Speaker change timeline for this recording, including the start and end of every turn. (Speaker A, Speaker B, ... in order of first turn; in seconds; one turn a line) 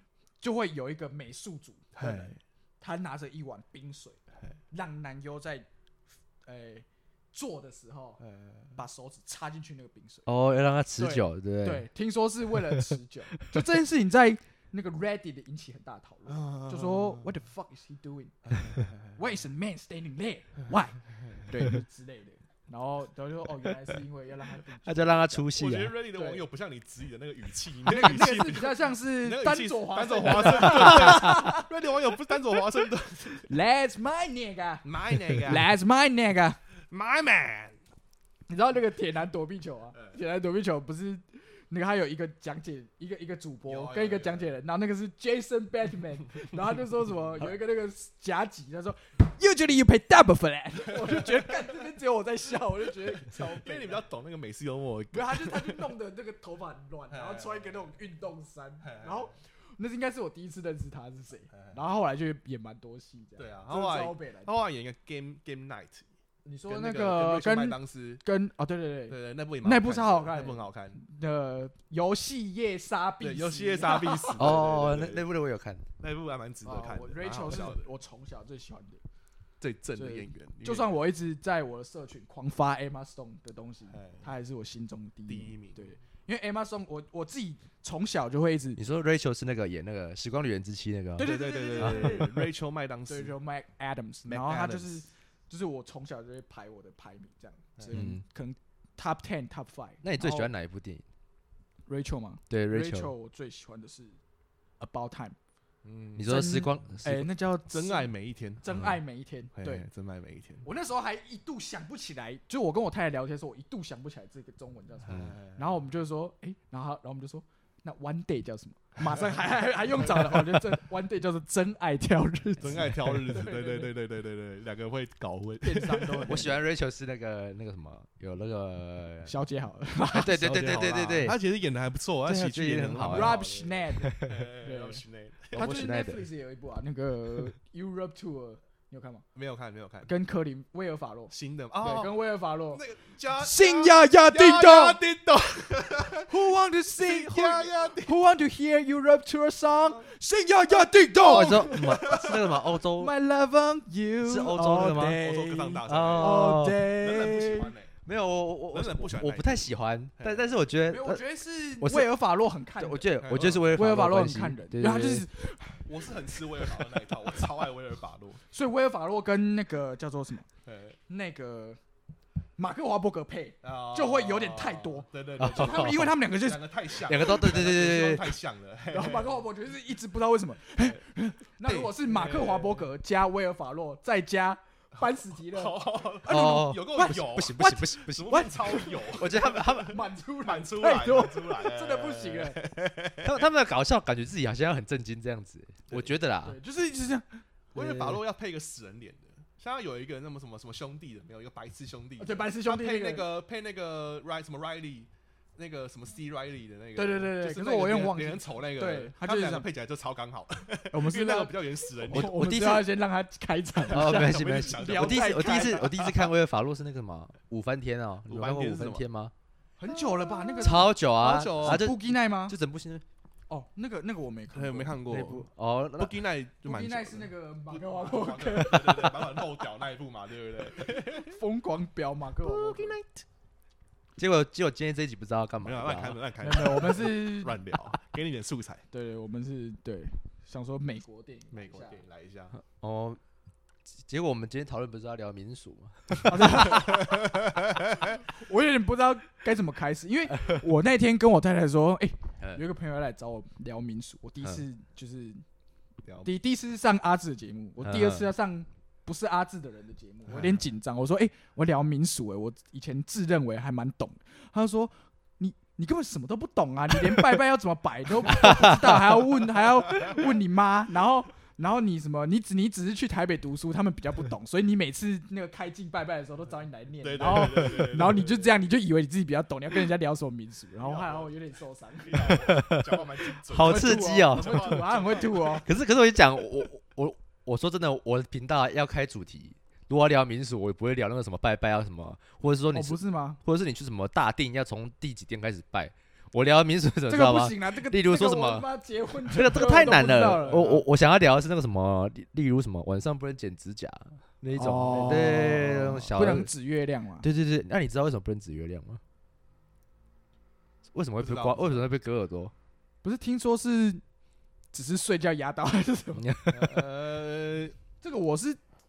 Speaker A: 0.4-4.2
Speaker B: 1.9-2.4
Speaker A: 4.7-5.7
Speaker A: 6.4-8.2
Speaker B: 8.2-8.8
Speaker A: 8.7-10.3
Speaker C: 10.3-11.8
Speaker A: 11.0-25.4
Speaker C: 12.7-13.5
Speaker B: 16.3-17.3
Speaker B: 18.5-19.2
Speaker C: 24.8-25.9
Speaker B: 25.5-33.5
Speaker A: 26.1-26.4
Speaker A: 27.8-31.7
Speaker C: 30.8-31.2
Speaker A: 33.5-36.6
Speaker B: 34.8-35.7
Speaker B: 36.9-37.8
Speaker A: 38.5-54.0
Speaker B: 43.7-44.5
Speaker B: 50.9-51.6
Speaker B: 53.2-55.9
Speaker A: 55.1-64.5
Speaker B: 57.1-57.7
Speaker B: 58.8-59.3
Speaker B: 63.4-66.1
Speaker A: 66.4-74.5
Speaker B: 66.7-68.2
Speaker B: 69.1-71.0
Speaker B: 73.2-75.2
Speaker C: 74.3-75.8
Speaker B: 76.0-77.8
Speaker A: 76.6-79.0
Speaker B: 79.6-81.0
Speaker A: 80.0-88.8
Speaker B: 83.9-84.2
Speaker B: 85.3-85.9
Speaker C: 88.8-92.2
Speaker A: 91.2-92.5
Speaker B: 91.2-93.3
Speaker A: 93.1-100.5
Speaker B: 94.2-95.0
Speaker C: 97.9-98.2
Speaker C: 100.0-101.0
Speaker A: 101.9-104.2
Speaker C: 102.5-103.1
Speaker A: 104.8-105.3
Speaker B: 105.8-106.2
Speaker C: 106.2-107.2
Speaker A: 106.2-109.8
Speaker B: 107.7-108.7
Speaker B: 109.5-110.7
Speaker A: 110.6-123.9
Speaker B: 115.0-115.8
Speaker B: 119.0-119.4
Speaker B: 120.0-120.6
Speaker B: 122.6-126.5
Speaker A: 125.6-126.5
Speaker C: 126.2-129.3
Speaker A: 129.2-131.3
Speaker C: 130.1-131.4
Speaker B: 130.7-135.8
Speaker C: 132.2-133.4
Speaker A: 133.0-135.0
Speaker C: 134.0-134.3
Speaker C: 135.5-136.2
Speaker A: 135.5-139.2
Speaker B: 139.3-140.1
Speaker A: 140.1-142.8
Speaker B: 141.3-146.4
Speaker A: 143.4-145.0
Speaker A: 146.3-152.1
Speaker B: 147.0-148.1
Speaker B: 151.1-152.6
Speaker C: 151.2-153.1
Speaker A: 153.0-157.7
Speaker C: 154.2-155.2
Speaker B: 155.2-157.9
Speaker C: 155.8-156.8
Speaker C: 158.0-161.2
Speaker B: 158.7-160.6
Speaker A: 160.9-163.2
Speaker C: 161.8-162.1
Speaker C: 162.8-165.2
Speaker B: 163.2-163.8
Speaker A: 163.7-165.9
Speaker B: 165.8-168.4
Speaker A: 168.5-170.4
Speaker B: 170.7-170.9
Speaker A: 171.1-171.8
Speaker A: 172.6-176.6
Speaker B: 173.6-179.4
Speaker C: 175.4-176.1
Speaker C: 177.1-178.2
Speaker A: 178.9-192.6
Speaker B: 181.6-182.9
Speaker B: 185.0-193.5
Speaker C: 186.3-189.9
Speaker C: 193.2-196.6
Speaker A: 196.4-197.4
Speaker B: 197.7-212.3
Speaker C: 197.8-198.2
Speaker A: 202.2-203.3
Speaker A: 206.9-209.7
Speaker A: 210.9-215.9
Speaker C: 212.1-212.9
Speaker B: 213.9-216.3
Speaker C: 213.9-219.3
Speaker B: 218.3-219.0
Speaker B: 219.8-221.8
Speaker A: 219.8-222.5
Speaker C: 220.6-223.0
Speaker A: 223.5-225.4
Speaker B: 224.5-225.4
Speaker C: 225.1-226.1
Speaker B: 226.0-231.3
Speaker A: 226.6-229.4
Speaker A: 230.9-233.0
Speaker C: 232.4-233.0
Speaker C: 234.2-236.2
Speaker B: 235.6-238.8
Speaker A: 236.4-237.6
Speaker A: 238.9-242.0
Speaker B: 241.5-242.5
Speaker C: 242.6-243.2
Speaker C: 244.1-246.8
Speaker A: 246.2-247.2
Speaker B: 246.4-248.2
Speaker A: 248.1-255.4
Speaker A: 256.2-282.4
Speaker C: 257.8-258.3
Speaker B: 260.3-260.6
Speaker C: 268.4-268.9
Speaker B: 277.0-278.5
Speaker B: 280.8-281.3
Speaker B: 282.0-285.6
Speaker C: 282.3-283.0
Speaker C: 283.5-284.9
Speaker A: 283.6-285.6
Speaker C: 285.6-298.7
Speaker A: 292.7-293.4
Speaker A: 297.1-300.6
Speaker C: 299.3-306.5
Speaker B: 300.3-300.8
Speaker A: 304.6-307.2
Speaker B: 304.7-306.1
Speaker C: 307.2-309.0
Speaker C: 310.9-312.5
Speaker B: 311.2-311.9
Speaker A: 313.0-314.0
Speaker A: 314.7-316.3
Speaker C: 316.2-316.8
Speaker B: 316.5-317.8
Speaker A: 318.0-318.6